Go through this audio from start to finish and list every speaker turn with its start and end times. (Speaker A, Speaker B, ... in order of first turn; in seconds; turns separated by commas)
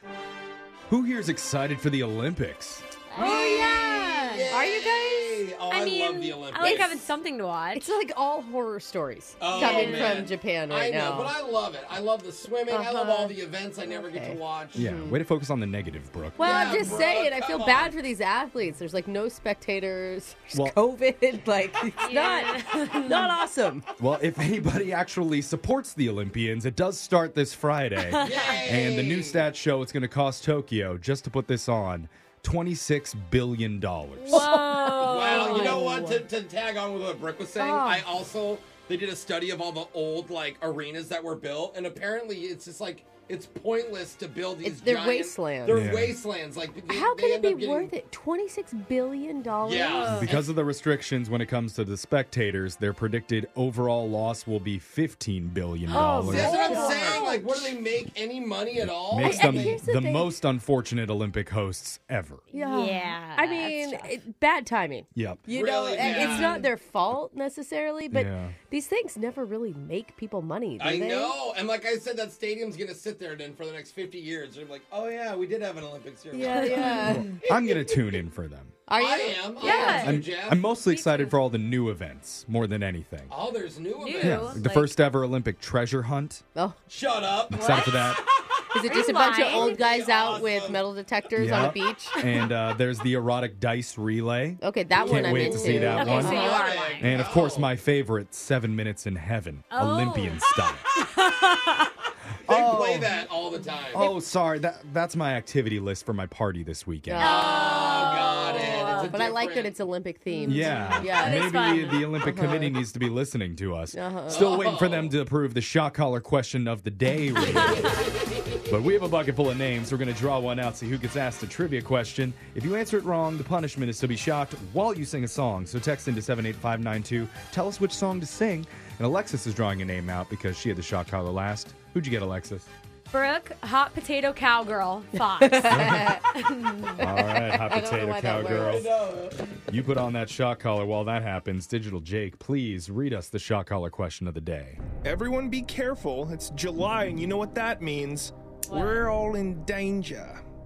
Speaker A: 0.9-2.9, Speaker B: 3.1-3.8, Speaker C: 3.1-4.7, Speaker D: 3.2-7.1, Speaker B: 4.5-5.4, Speaker C: 5.7-7.9, Speaker B: 6.6-6.8, Speaker B: 7.7-11.3, Speaker D: 9.4-14.8, Speaker C: 9.5-10.2, Speaker B: 12.7-15.2, Speaker A: 14.8-17.0, Speaker B: 16.4-23.9, Speaker D: 16.4-17.9, Speaker A: 20.5-20.8, Speaker C: 22.0-23.3, Speaker A: 24.0-34.5, Speaker C: 28.1-28.6, Speaker D: 28.2-29.4, Speaker C: 34.3-36.0, Speaker B: 34.3-36.2, Speaker D: 35.0-47.9, Speaker B: 37.5-38.1, Speaker B: 44.6-45.9, Speaker A: 45.7-46.1, Speaker B: 46.9-50.3, Speaker D: 49.6-50.5, Speaker C: 49.9-50.3, Speaker A: 50.1-56.6, Speaker C: 55.9-57.4, Speaker B: 55.9-57.5, Speaker D: 56.3-59.8, Speaker A: 58.8-62.4, Speaker B: 59.1-60.3, Speaker C: 62.5-64.1, Speaker B: 62.5-71.3, Speaker A: 65.1-65.4, Speaker D: 65.5-66.7, Speaker C: 66.0-66.7, Speaker A: 68.1-68.5, Speaker D: 70.8-77.8, Speaker B: 76.3-77.3, Speaker C: 76.3-77.2, Speaker A: 77.1-78.7, Speaker B: 78.9-80.2, Speaker D: 79.0-80.6, Speaker C: 79.6-80.2, Speaker A: 80.0-83.3, Speaker C: 80.7-81.3, Speaker D: 83.3-84.6, Speaker C: 84.0-84.9, Speaker A: 84.2-86.4, Speaker D: 86.9-88.3, Speaker A: 87.5-88.2, Speaker C: 87.5-88.1, Speaker B: 88.7-92.2, Speaker C: 88.8-89.9, Speaker D: 89.3-90.8, Speaker A: 91.3-96.4, Speaker B: 94.6-96.7, Speaker C: 95.0-97.1, Speaker D: 95.0-97.7, Speaker A: 97.0-101.0, Speaker C: 99.7-101.9, Speaker A: 102.5-103.2, Speaker D: 102.5-104.1, Speaker A: 103.9-107.3, Speaker B: 107.1-107.8, Speaker C: 107.2-109.3, Speaker D: 107.2-109.7, Speaker B: 108.8-111.6, Speaker C: 110.3-112.1, Speaker A: 110.5-117.8, Speaker B: 112.2-112.8, Speaker B: 113.9-114.5, Speaker D: 114.3-115.1, Speaker C: 117.6-117.9, Speaker A: 118.7-132.7, Speaker C: 133.1-137.0, Speaker B: 135.4-136.2, Speaker A: 135.7-136.2, Speaker A: 137.0-138.9, Speaker B: 137.1-138.9, Speaker D: 138.4-139.3, Speaker A: 139.7-144.8, Speaker E: 145.0-150.4, Speaker C: 148.7-149.0